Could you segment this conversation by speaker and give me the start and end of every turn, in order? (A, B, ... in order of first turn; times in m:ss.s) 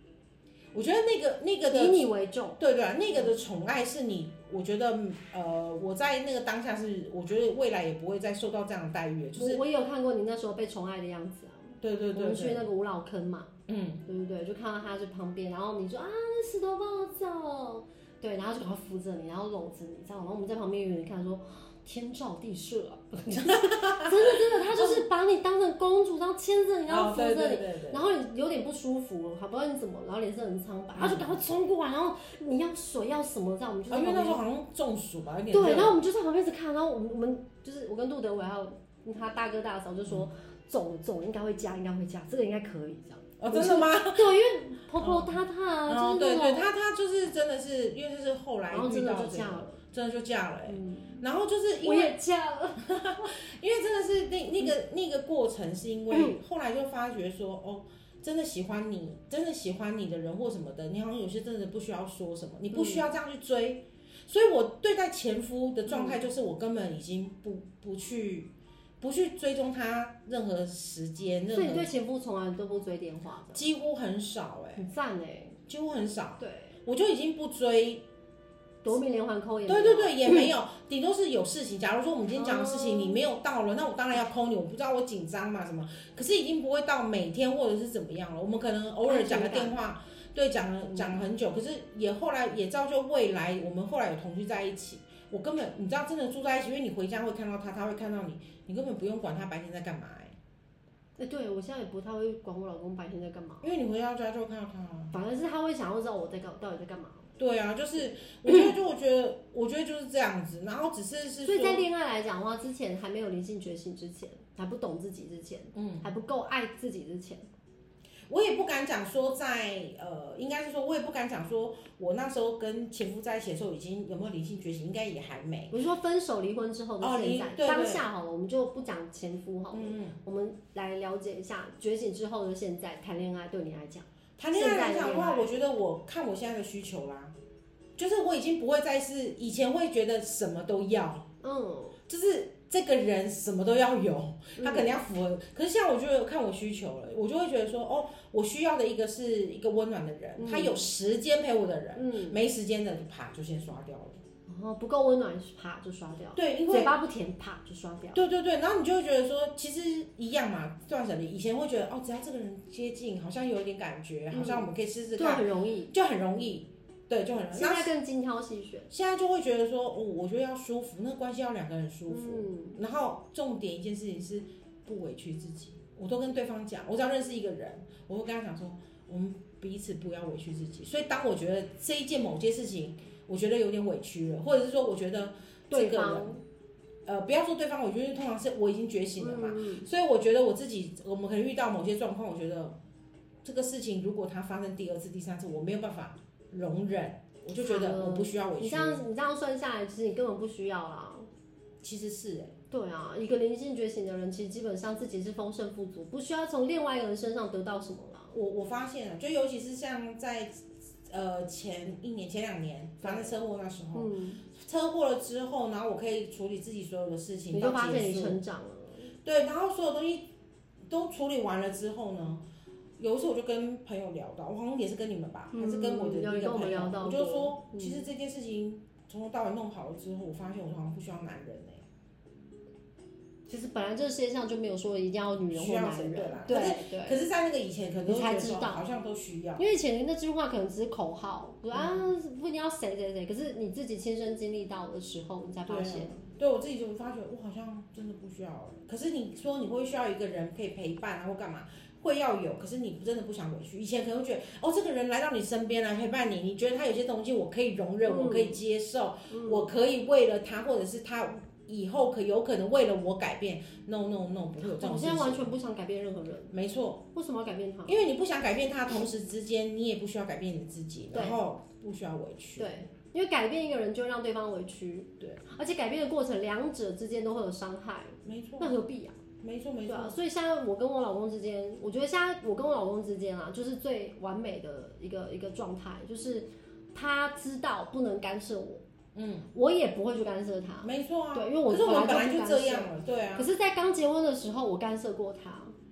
0:00.7-0:02.0 A
0:01.7-0:02.6 B
0:02.6-0:09.6 A
0:09.3-0:13.5 B
0:11.8-0:12.7 A
0:13.7-0:14.0 A
0:14.1-0:34.4 B
0:23.5-0:25.0 A
0:26.9-0:28.0 A
0:31.0-0:31.3 A
0:33.9-0:36.0 A
0:35.5-0:46.7 B
0:43.4-0:44.4 A
0:45.0-0:52.2 A
0:48.7-0:49.8 B
0:50.6-0:51.2 B
0:51.8-0:53.0 B
0:52.8-1:11.9 A
1:02.7-1:03.1 B
1:05.9-1:06.2 B
1:11.5-1:13.6 B
1:13.5-1:14.8 A
1:14.8-1:15.6 B
1:15.7-1:18.0 A
1:16.4-1:16.8 B
1:18.8-1:20.5 B
1:19.6-1:40.3 A
1:22.3-1:23.2 B
1:29.0-1:29.8 B
1:30.8-1:31.2 B
1:41.2-1:43.7 B
1:43.6-1:45.1 A
1:45.1-1:47.3 B
1:47.4-1:51.8 A
1:51.4-1:57.4 B
1:55.7-1:56.0 A
1:58.3-2:05.7 A
2:05.7-2:15.5 B
2:07.0-2:08.0 A
2:09.7-2:10.2 A
2:14.4-2:17.3 A
2:18.0-2:21.3 A
2:21.4-2:22.0 B
2:22.1-2:34.2 A
2:24.6-2:25.0 B
2:30.4-2:30.8 B
2:31.9-2:32.4 B
2:34.5-2:38.2 B
2:36.3-2:37.0 A
2:38.1-2:47.9 A
2:44.3-2:45.9 B
2:47.5-2:48.9 B
2:48.9-3:06.4 A
2:52.1-2:52.8 B
3:05.7-3:06.4 B
3:07.0-3:12.8 A
3:09.2-3:09.9 B
3:13.4-3:19.0 A
3:17.6-3:21.3 B
3:21.8-3:22.5 A
3:22.7-3:28.3 B
3:28.3-3:38.4 A
3:33.0-3:33.4 B
3:33.9-3:34.4 B
3:37.5-3:39.1 B
3:39.2-3:40.3 A
3:40.9-3:42.4 A
3:43.0-3:51.8 A
3:45.5-3:48.1 B
3:53.5-3:57.2 B
3:55.5-3:59.6 A
3:58.0-3:58.8 B
3:59.6-4:06.2 B
4:01.7-4:02.0 A
4:05.7-4:25.5 A
4:18.0-4:18.6 B
4:19.3-4:19.7 B
4:24.6-4:26.5 B
4:26.5-4:27.0 A
4:27.1-4:28.0 B
4:27.8-4:32.8 A
4:31.1-4:31.4 B
4:32.6-4:39.2 B
4:38.2-4:38.8 A
4:39.4-4:40.2 A
4:39.8-4:48.8 B
4:49.1-4:49.5 A
4:49.5-4:55.7 B
4:50.8-4:53.5 A